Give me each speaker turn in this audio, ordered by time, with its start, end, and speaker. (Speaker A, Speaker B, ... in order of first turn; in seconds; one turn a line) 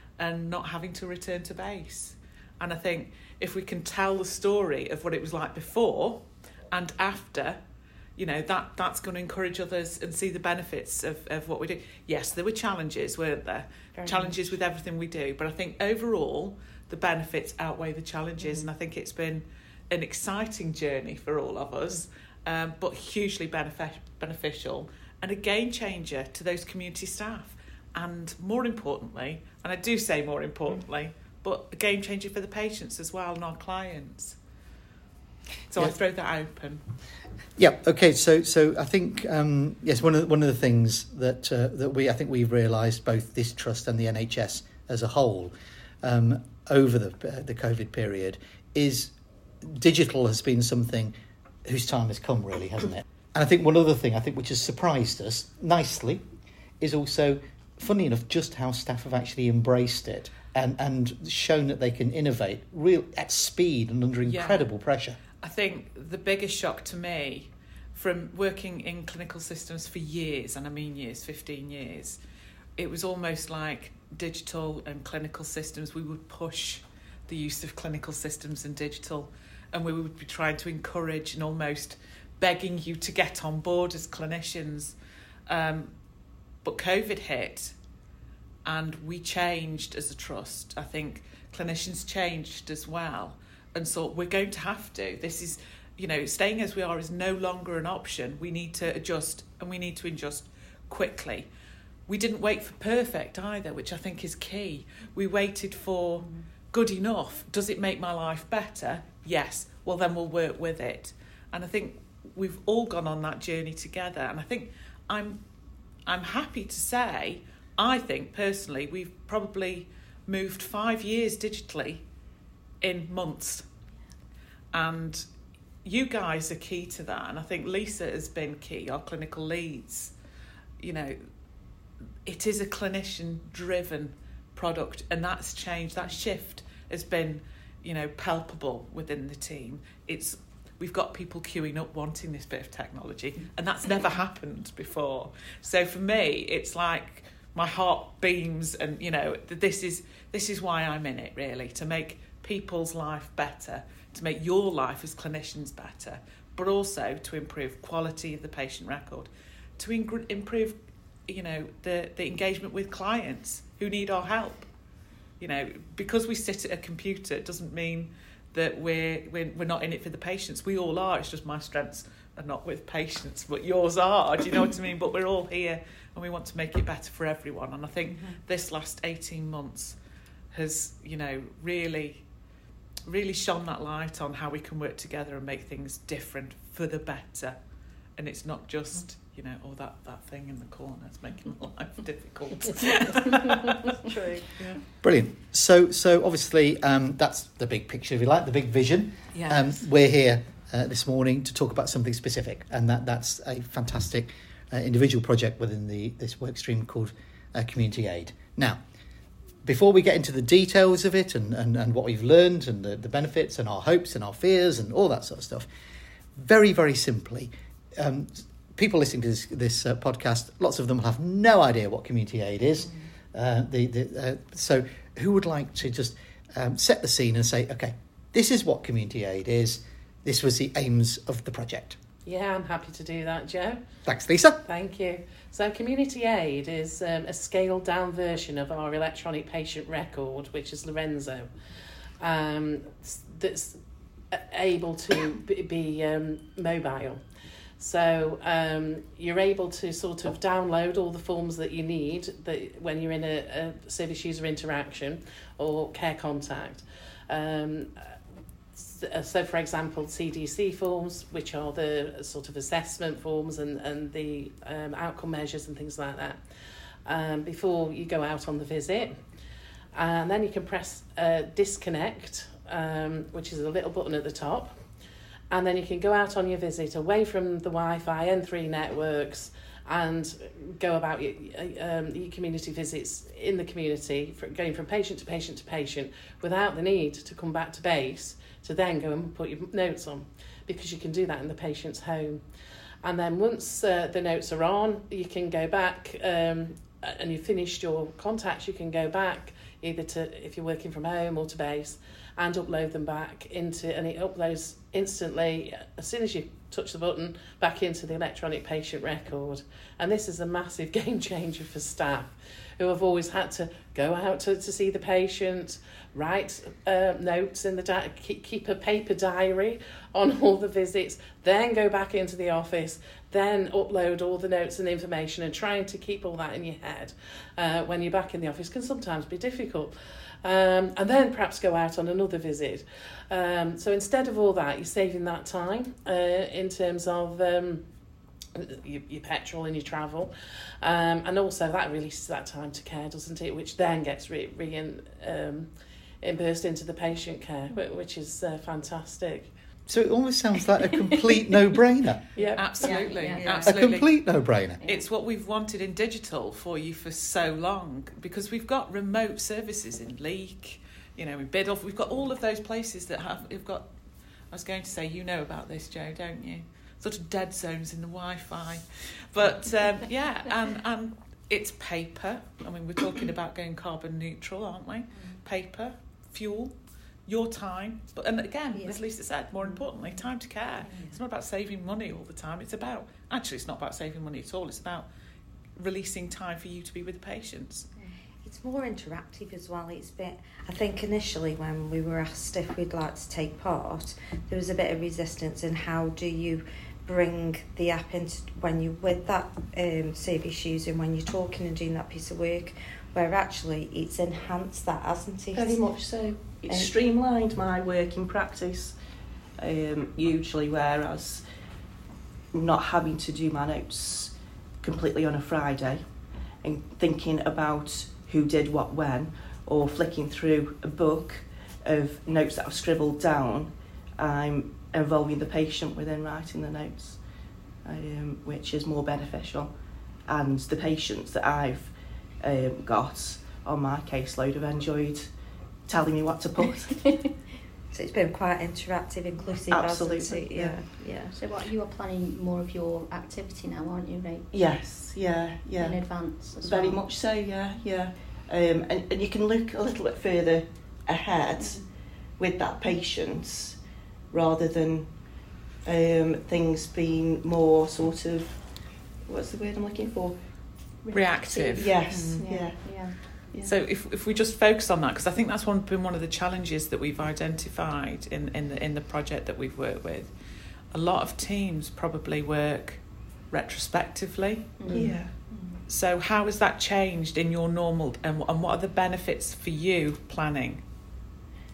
Speaker A: 0.2-7.6
Speaker A: 8.2-34.4
Speaker B: 14.0-14.4
Speaker A: 35.7-36.8
Speaker C: 37.6-56.2
Speaker C: 56.8-65.2
Speaker A: 64.2-64.7
Speaker A: 65.4-72.2
Speaker A: 72.8-85.0
Speaker A: 85.5-85.9
Speaker A: 86.6-87.8
Speaker A: 88.7-101.5
Speaker A: 102.1-115.4
Speaker A: 116.1-122.0
Speaker A: 122.8-123.7
Speaker A: 124.7-125.3
Speaker A: 125.8-130.1
Speaker A: 130.8-131.2
Speaker A: 132.3-160.8
Speaker A: 161.3-164.7
Speaker A: 165.4-180.0
Speaker A: 180.5-182.2
Speaker A: 183.1-187.6
Speaker A: 188.2-194.0
Speaker A: 194.5-194.8
Speaker C: 195.0-208.8
Speaker A: 199.3-199.8
Speaker C: 209.6-215.7
Speaker C: 216.4-232.0
Speaker D: 232.2-233.8
Speaker C: 234.1-234.6
Speaker D: 234.6-241.6
Speaker D: 242.2-243.8
Speaker D: 244.3-247.2
Speaker D: 247.8-258.1
Speaker D: 258.8-266.4
Speaker D: 267.1-269.2
Speaker D: 269.9-274.8
Speaker D: 275.5-292.4
Speaker D: 293.0-337.9
Speaker D: 338.6-345.7
Speaker D: 346.2-349.5
Speaker C: 349.9-352.2
Speaker D: 352.4-352.7
Speaker A: 352.6-364.0
Speaker E: 352.8-353.7
Speaker B: 353.4-353.7
Speaker C: 353.6-354.8
Speaker E: 354.8-355.1
Speaker A: 364.5-385.1
Speaker B: 378.7-379.0
Speaker B: 379.6-380.2
Speaker A: 385.8-387.9
Speaker B: 388.0-406.9
Speaker F: 405.5-409.0
Speaker F: 409.6-411.4
Speaker F: 412.5-427.3
Speaker F: 427.8-435.3
Speaker F: 435.9-437.3
Speaker B: 437.9-441.4
Speaker F: 439.7-440.8
Speaker E: 441.3-444.5
Speaker F: 444.5-453.8
Speaker E: 445.8-447.0
Speaker E: 451.6-451.8
Speaker F: 454.3-460.9
Speaker E: 461.0-463.2
Speaker A: 461.1-461.9
Speaker F: 461.7-463.7
Speaker A: 463.6-470.3
Speaker A: 470.9-475.2
Speaker E: 474.8-475.8
Speaker F: 474.9-475.4
Speaker A: 475.9-480.8